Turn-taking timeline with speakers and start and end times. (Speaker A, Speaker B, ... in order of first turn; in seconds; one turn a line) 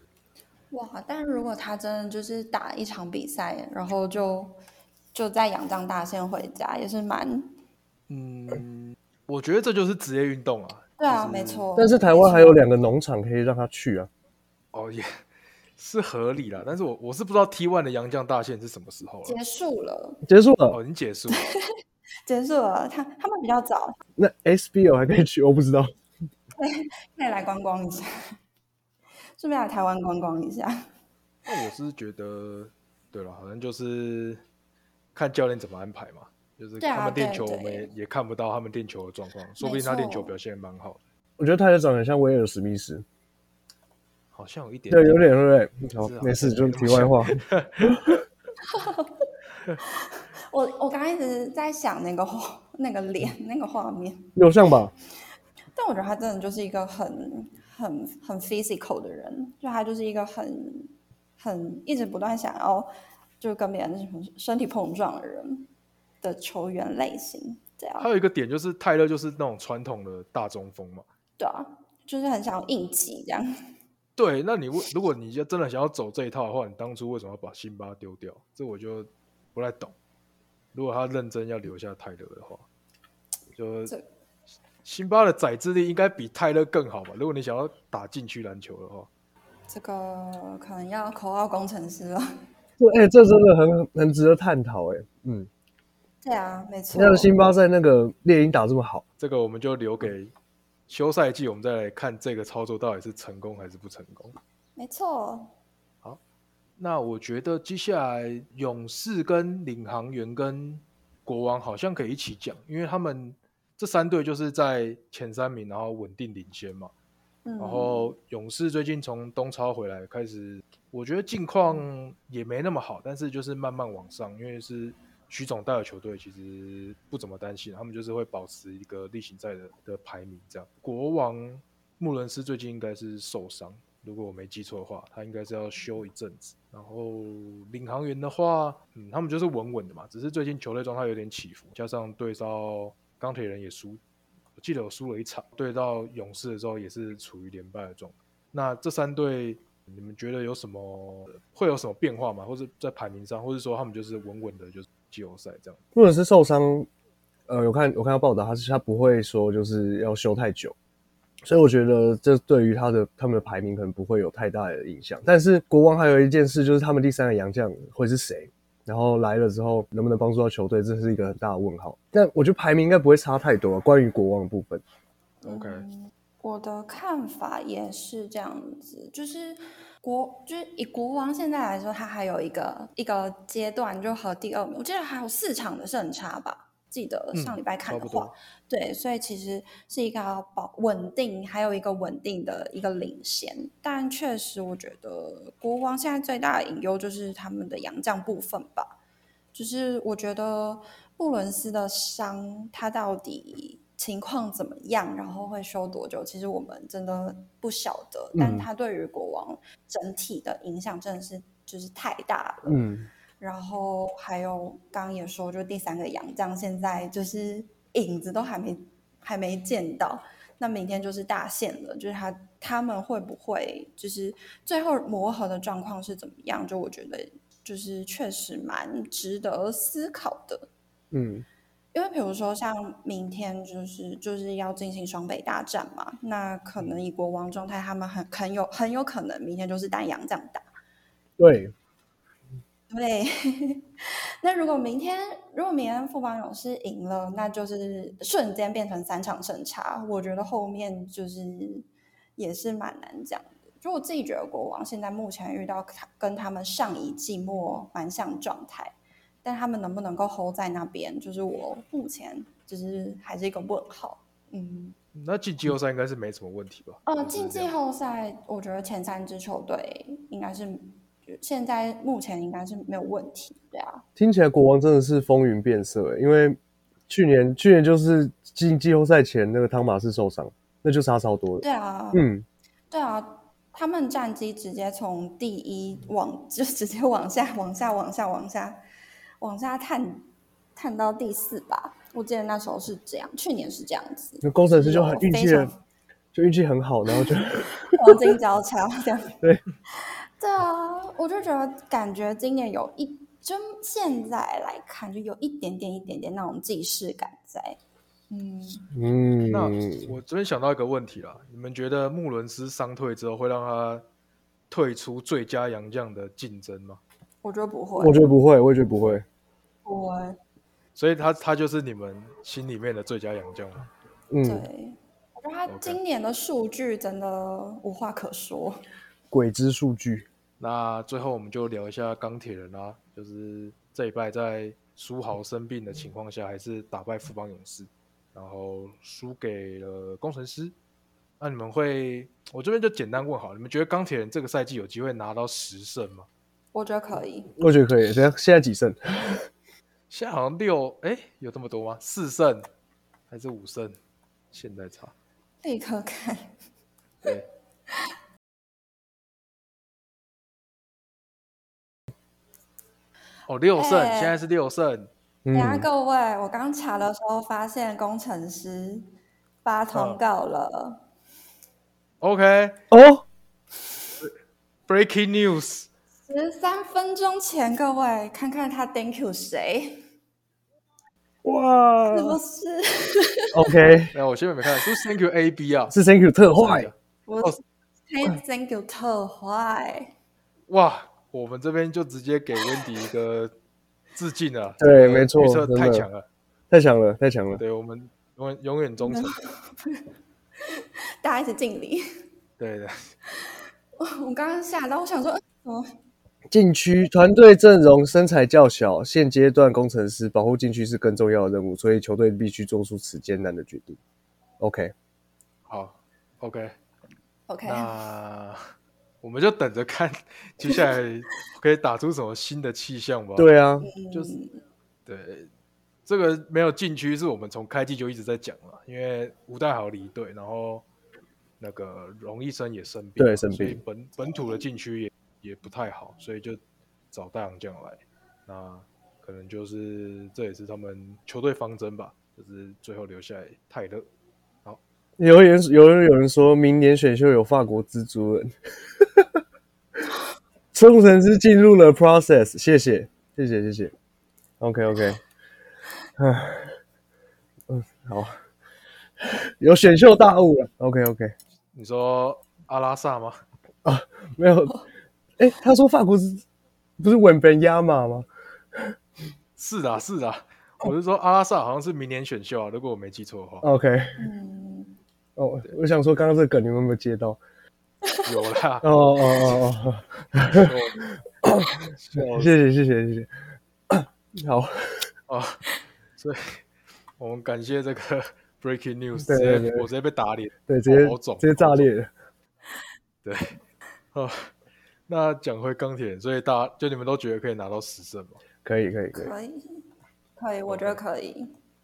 Speaker A: 0.7-4.6
Speaker A: 5.1-7.5
Speaker B: 8.1-11.7
Speaker A: 11.0-12.6
Speaker C: 11.8-14.1
Speaker B: 14.7-15.2
Speaker B: 15.8-19.4
Speaker A: 19.2-20.2
Speaker C: 20.3-20.8
Speaker B: 20.7-21.5
Speaker A: 21.3-21.6
Speaker A: 22.3-24.0
Speaker C: 24.2-25.9
Speaker A: 26.6-28.1
Speaker A: 29.4-30.9
Speaker B: 31.5-34.4
Speaker B: 35.1-41.0
Speaker A: 36.8-37.9
Speaker A: 39.6-40.3
Speaker C: 41.4-43.0
Speaker B: 44.3-45.3
Speaker C: 44.9-48.2
Speaker B: 46.0-48.1
Speaker A: 48.6-49.3
Speaker A: 49.8-54.3
Speaker C: 54.4-54.9
Speaker A: 55.8-65.7
Speaker A: 66.2-68.1
Speaker B: 68.0-71.1
Speaker A: 71.4-73.5
Speaker B: 74.2-79.9
Speaker B: 80.7-82.7
Speaker B: 83.6-83.9
Speaker B: 84.8-89.1
Speaker A: 89.7-92.3
Speaker C: 92.8-95.5
Speaker A: 96.2-97.3
Speaker C: 96.9-99.0
Speaker B: 99.2-100.3
Speaker B: 100.9-104.4
Speaker A: 104.8-105.5
Speaker B: 106.8-116.9
Speaker A: 117.5-118.2
Speaker B: 117.6-144.0
Speaker B: 144.6-155.8
Speaker C: 155.9-156.9
Speaker C: 157.5-160.8
Speaker C: 161.4-174.8
Speaker B: 175.4-175.8
Speaker A: 175.4-199.0
Speaker B: 187.3-188.3
Speaker A: 199.5-212.8
Speaker C: 208.3-208.7
Speaker C: 212.7-213.1
Speaker A: 213.4-230.7
Speaker C: 231.1-231.5
Speaker A: 231.9-240.7
Speaker C: 241.4-241.7
Speaker A: 242.9-243.9
Speaker A: 244.4-251.9
Speaker A: 252.4-265.0
Speaker B: 265.1-267.7
Speaker A: 267.1-274.0
Speaker C: 274.2-282.4
Speaker A: 281.6-282.3
Speaker A: 282.9-288.8
Speaker A: 289.4-295.8
Speaker C: 294.4-295.7
Speaker C: 296.3-298.3
Speaker A: 297.9-299.4
Speaker A: 299.9-307.8
Speaker A: 308.3-308.9
Speaker C: 308.9-310.1
Speaker B: 309.5-314.1
Speaker B: 314.7-317.0
Speaker A: 317.4-318.3
Speaker C: 318.0-319.2
Speaker A: 319.9-320.4
Speaker B: 321.0-323.9
Speaker C: 324.3-324.7
Speaker A: 324.4-328.8
Speaker B: 325.7-326.0
Speaker C: 329.3-330.3
Speaker B: 330.6-340.8
Speaker B: 341.4-346.3
Speaker A: 346.7-347.5
Speaker C: 347.6-349.5
Speaker B: 350.1-352.7
Speaker B: 353.3-354.0
Speaker B: 354.5-355.1
Speaker A: 355.6-356.6
Speaker B: 363.5-365.1
Speaker A: 363.8-364.4
Speaker C: 365.4-365.9
Speaker A: 365.5-369.1
Speaker A: 369.6-371.0
Speaker B: 369.9-370.2
Speaker B: 372.2-372.8
Speaker C: 372.9-373.2
Speaker B: 374.9-375.9
Speaker A: 376.3-380.0
Speaker C: 381.4-382.4
Speaker A: 382.1-383.6
Speaker C: 383.5-384.1
Speaker B: 384.1-385.9
Speaker C: 385.9-386.9
Speaker B: 386.5-387.6
Speaker A: 387.3-390.1
Speaker B: 390.7-393.5
Speaker B: 394.1-396.2
Speaker C: 394.8-396.1
Speaker C: 396.7-397.6
Speaker B: 397.6-399.4
Speaker A: 399.0-400.0
Speaker A: 400.7-402.0
Speaker B: 402.6-403.1
Speaker A: 404.0-405.9
Speaker C: 406.5-414.0
Speaker C: 414.6-414.9
Speaker B: 415.7-416.8
Speaker A: 417.5-417.9
Speaker B: 417.6-418.7
Speaker B: 419.2-423.5
Speaker A: 420.7-421.0
Speaker C: 423.4-423.9
Speaker A: 423.8-424.6
Speaker B: 425.1-425.5
Speaker B: 426.1-430.9
Speaker B: 431.6-436.6
Speaker C: 433.2-433.8
Speaker B: 437.1-444.1
Speaker C: 445.2-449.4
Speaker C: 450.7-453.9
Speaker C: 454.6-455.2
Speaker C: 456.2-456.8
Speaker C: 457.7-458.4
Speaker C: 459.2-461.4
Speaker B: 461.7-463.4
Speaker C: 463.8-464.8
Speaker C: 465.4-466.4
Speaker C: 467.0-468.9
Speaker B: 469.6-473.7
Speaker C: 473.6-474.3
Speaker A: 474.2-475.0
Speaker C: 475.4-477.4
Speaker B: 478.2-479.7
Speaker C: 478.8-480.7
Speaker B: 480.4-481.1
Speaker C: 481.4-483.3
Speaker B: 481.9-482.5
Speaker C: 483.9-485.1
Speaker B: 485.3-485.6
Speaker B: 486.2-486.6
Speaker B: 487.2-491.9
Speaker C: 489.2-489.9
Speaker C: 490.7-492.1
Speaker B: 493.2-493.6
Speaker B: 494.1-494.5
Speaker B: 495.1-498.4
Speaker C: 498.6-499.3
Speaker A: 499.1-499.8
Speaker A: 500.4-501.5
Speaker B: 500.7-501.0